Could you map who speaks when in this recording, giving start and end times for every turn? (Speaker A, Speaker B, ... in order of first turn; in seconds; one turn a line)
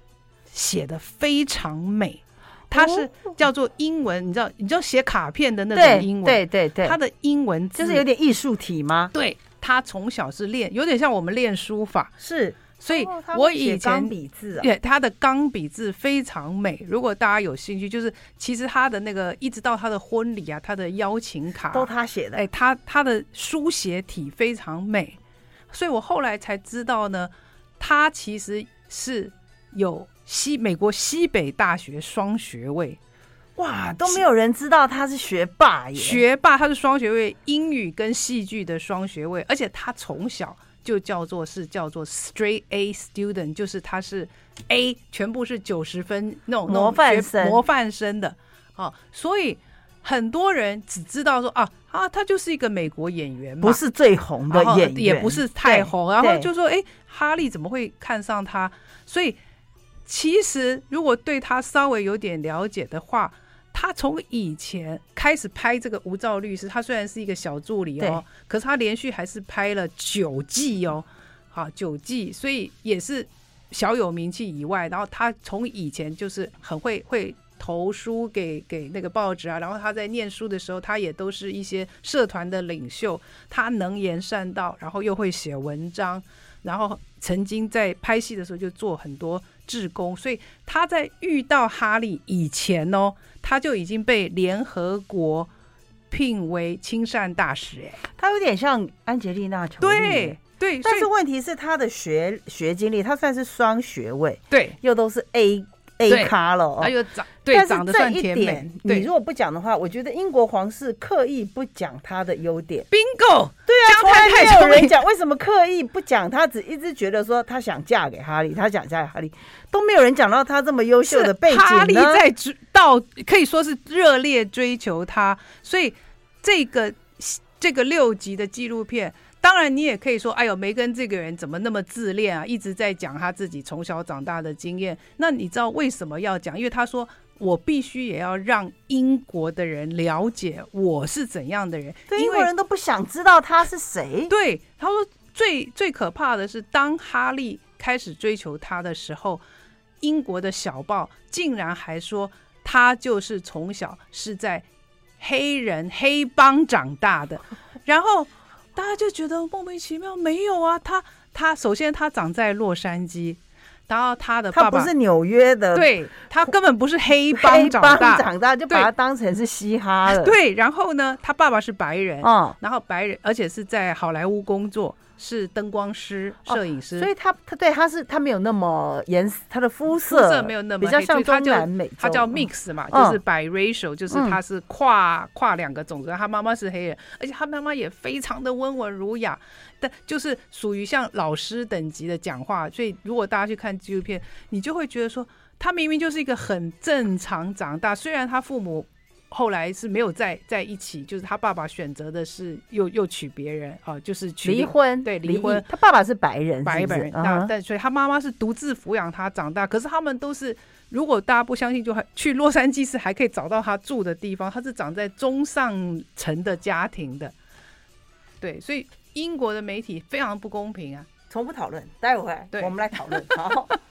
Speaker A: 0.5-8.0
Speaker B: 2.7-3.4
Speaker B: 5.7-7.0
Speaker B: 7.8-9.1
Speaker A: 9.1-12.1
Speaker B: 12.2-14.7
Speaker A: 12.8-25.2
Speaker B: 21.7-22.4
Speaker A: 25.7-33.0
Speaker B: 33.6-36.2
Speaker A: 36.0-53.8
Speaker B: 46.7-47.6
Speaker B: 53.6-56.5
Speaker A: 54.5-59.4
Speaker A: 60.0-95.5
Speaker A: 96.1-98.0
Speaker B: 98.2-106.9
Speaker A: 99.8-101.1
Speaker A: 104.5-104.8
Speaker A: 106.1-109.1
Speaker B: 107.5-112.9
Speaker A: 112.9-115.0
Speaker B: 113.7-122.2
Speaker A: 121.1-142.5
Speaker B: 142.1-144.3
Speaker A: 144.3-149.4
Speaker A: 150.0-154.7
Speaker A: 155.2-164.9
Speaker B: 164.5-165.9
Speaker A: 165.7-168.9
Speaker B: 167.3-170.3
Speaker A: 170.1-177.1
Speaker B: 172.2-172.6
Speaker B: 176.5-183.2
Speaker A: 180.0-205.7
Speaker B: 184.1-184.4
Speaker B: 204.4-207.5
Speaker A: 206.6-217.3
Speaker A: 218.4-221.1
Speaker B: 221.3-223.8
Speaker A: 222.5-223.3